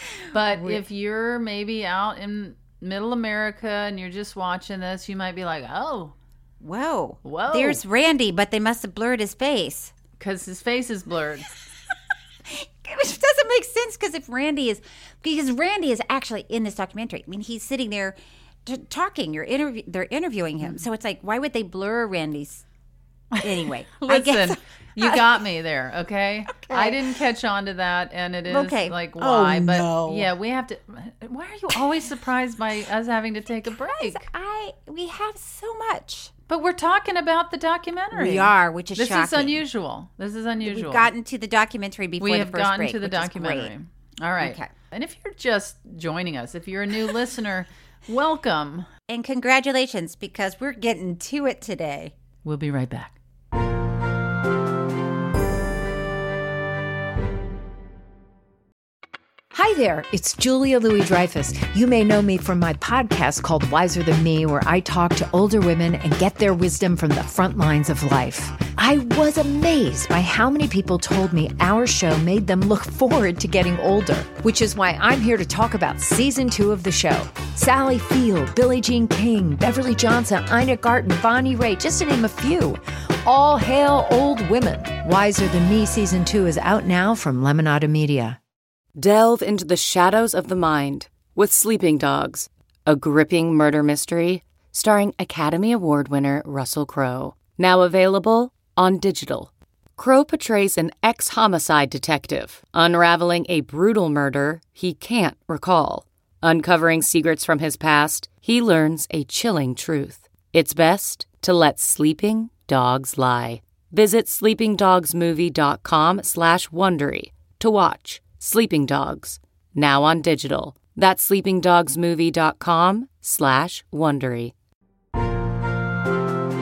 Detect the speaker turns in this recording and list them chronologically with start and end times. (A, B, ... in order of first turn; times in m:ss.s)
0:00.3-0:06.1 A
0:00.4-0:00.8 B
0:06.6-0:09.9 B
0:07.2-0:07.8 A
0:10.2-0:11.5 A
0:12.4-0:22.6 B
0:23.3-0:34.2 A
0:23.4-0:25.4 B
0:26.5-0:27.0 B
0:28.5-0:30.3 B
0:33.7-0:36.3 B
0:36.5-0:41.1 A
0:38.1-0:39.6 B
0:40.6-0:43.7 B
0:42.2-0:48.9 A
0:44.4-0:44.7 B
0:49.1-0:52.1 B
0:52.4-0:53.2 A
0:59.5-1:28.4 C
1:29.0-2:04.5 D